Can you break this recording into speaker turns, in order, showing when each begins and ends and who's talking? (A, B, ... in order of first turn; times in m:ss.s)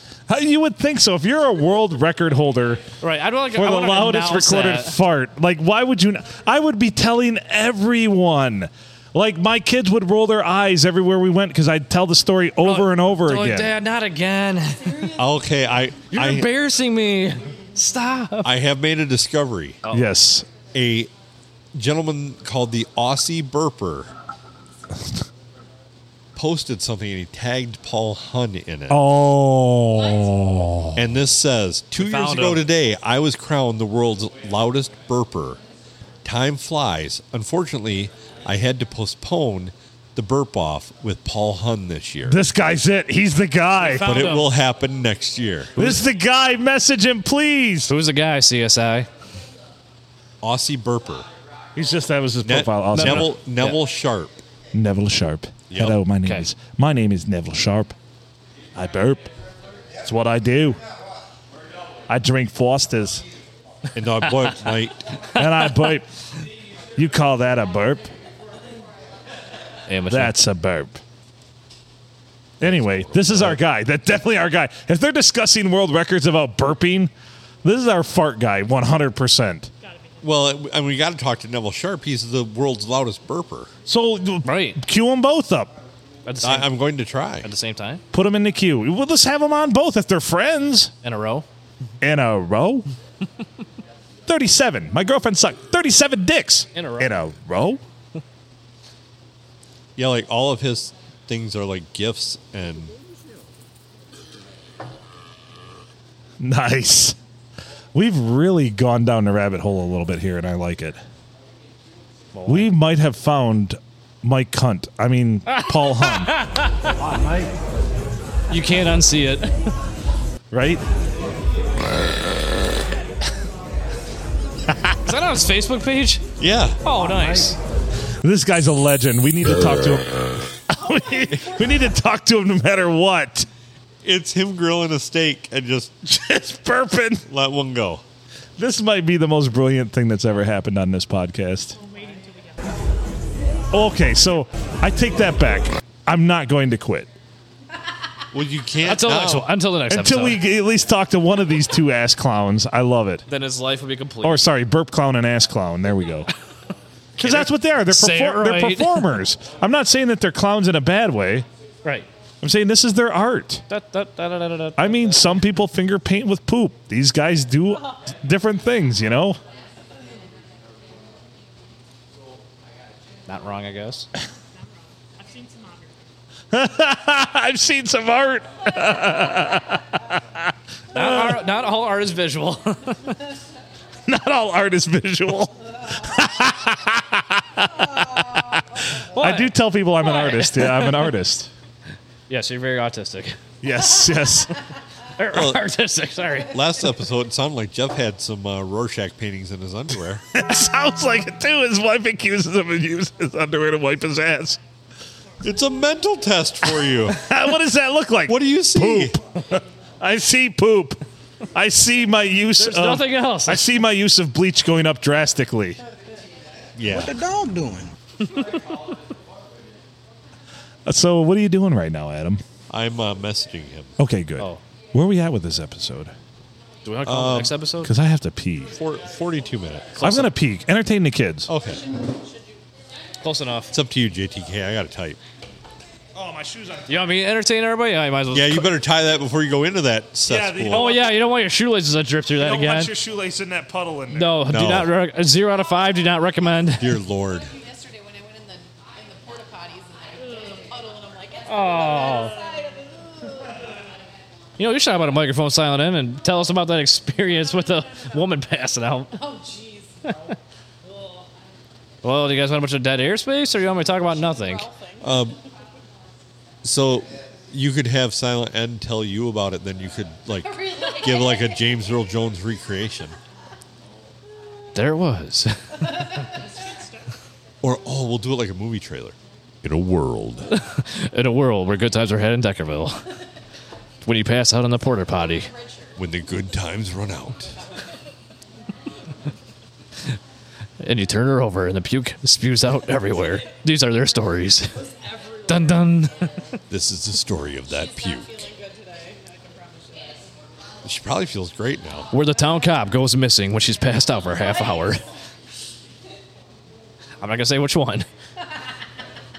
0:00.3-0:02.8 A
0:03.0-0:05.0 B
0:03.5-0:13.7 A
0:12.6-0:15.2 B
0:14.8-0:15.3 C
0:15.2-0:16.5 D
0:16.1-0:18.5 B
0:18.4-0:19.8 D
0:19.9-0:20.4 A
0:20.7-0:21.1 D
0:21.7-0:24.1 D
0:26.4-0:29.1 D
0:28.9-0:31.0 A
0:30.9-0:35.6 D
0:32.0-0:32.7 B
0:36.2-0:42.4 D
0:42.3-0:44.2 A
0:43.8-0:44.5 B
0:44.0-0:46.0 D
0:45.8-0:47.9 A
0:47.9-0:49.1 B
0:50.4-0:51.3 D
0:51.8-0:53.3 A
0:52.4-0:54.3 D
0:52.9-0:53.8 B
0:54.7-0:57.9 A
0:55.7-0:56.0 D
0:58.7-0:59.3 A
1:00.0-1:00.8 A
1:02.1-1:03.2 A
1:03.9-1:05.2 D
1:05.3-1:06.1 A
1:07.0-1:08.1 A
1:09.9-1:10.3 B
1:10.1-1:11.0 A
1:12.6-1:17.1 A
1:12.6-1:13.6 D
1:17.6-1:19.7 A
1:19.8-1:20.4 E
1:20.2-1:23.7 D
1:23.9-1:25.7 A
1:24.4-1:24.8 B
1:26.2-1:26.7 B
1:26.4-1:27.5 D
1:27.4-1:28.0 B
1:28.1-1:30.9 A
1:31.0-1:31.4 B
1:32.0-1:32.9 A
1:34.3-1:37.8 A
1:36.7-1:37.2 B
1:40.0-1:42.9 D
1:46.4-1:47.2 A
1:47.9-1:51.0 A
1:52.3-1:52.7 B
1:52.5-1:56.3 A
1:55.5-1:57.3 B
1:58.5-1:59.7 B
2:00.5-2:00.8 A
2:05.0-2:06.2 B
2:06.4-2:06.8 D
2:06.8-2:07.6 B
2:08.2-2:13.5 A
2:14.0-2:15.9 D
2:16.0-2:17.2 A
2:17.3-2:18.0 D
2:18.6-2:21.8 A
2:21.7-2:22.8 E
2:23.7-2:27.1 A
2:28.3-2:29.5 D
2:28.8-2:30.4 B
2:29.9-2:33.2 A
2:33.3-2:34.4 B
2:34.2-2:36.3 A
2:37.2-2:41.4 A
2:37.2-2:39.2 B
2:42.4-2:43.6 A
2:43.7-2:45.3 B
2:44.8-2:49.4 A
2:53.3-2:54.1 B
2:54.5-2:56.2 E
2:56.5-3:01.4 A
3:00.9-3:03.2 B
3:04.0-3:11.5 A
3:09.1-3:11.1 B
3:12.3-3:13.4 B
3:13.6-3:14.5 A
3:15.2-3:16.5 B
3:15.3-3:15.6 D
3:16.5-3:20.2 D
3:20.3-3:24.6 A
3:25.4-3:27.2 D
3:26.8-3:31.0 A
3:28.2-3:29.2 D
3:31.5-3:35.8 A
3:32.6-3:33.6 B
3:36.7-3:37.2 D
3:40.8-3:42.4 A
3:42.7-3:44.0 D
3:44.0-3:46.1 A
3:46.8-3:47.9 B
3:47.0-3:47.5 D
3:47.8-3:48.7 A
3:48.7-3:50.0 D
3:50.0-3:50.3 B
3:50.0-3:51.5 A
3:51.5-3:51.8 D
3:51.7-3:52.4 C
3:53.2-3:53.7 B
3:53.7-3:55.2 D
3:56.2-3:56.8 A
3:56.9-3:58.7 B
3:58.3-4:01.0 D
4:00.2-4:01.1 A
4:00.7-4:02.9 B
4:02.4-4:04.4 A
4:04.1-4:06.9 B
4:04.5-4:04.9 D
4:06.8-4:07.5 D
4:07.2-4:13.8 C
4:10.2-4:10.6 E
4:11.4-4:12.4 B
4:14.6-4:19.2 B
4:19.1-4:20.1 C
4:20.8-4:21.2 C
4:22.0-4:24.7 B
4:24.0-4:25.4 C
4:25.0-4:25.4 D
4:26.6-4:33.2 D
4:30.4-4:31.9 C
4:34.7-4:36.1 B
4:35.8-4:36.9 C
4:36.5-4:37.0 E
4:37.6-4:40.5 D
4:40.5-4:43.0 B
4:44.0-4:45.5 B
4:45.0-4:46.0 C
4:46.0-4:47.6 D
4:47.6-4:47.9 C
4:50.8-4:54.8 B
4:53.1-4:53.5 C
4:54.7-4:55.9 C
4:55.5-4:56.3 B
4:56.7-4:58.4 D
4:57.7-5:00.3 C
5:00.8-5:02.1 D
5:02.1-5:05.0 B
5:04.2-5:05.0 C
5:07.2-5:08.1 B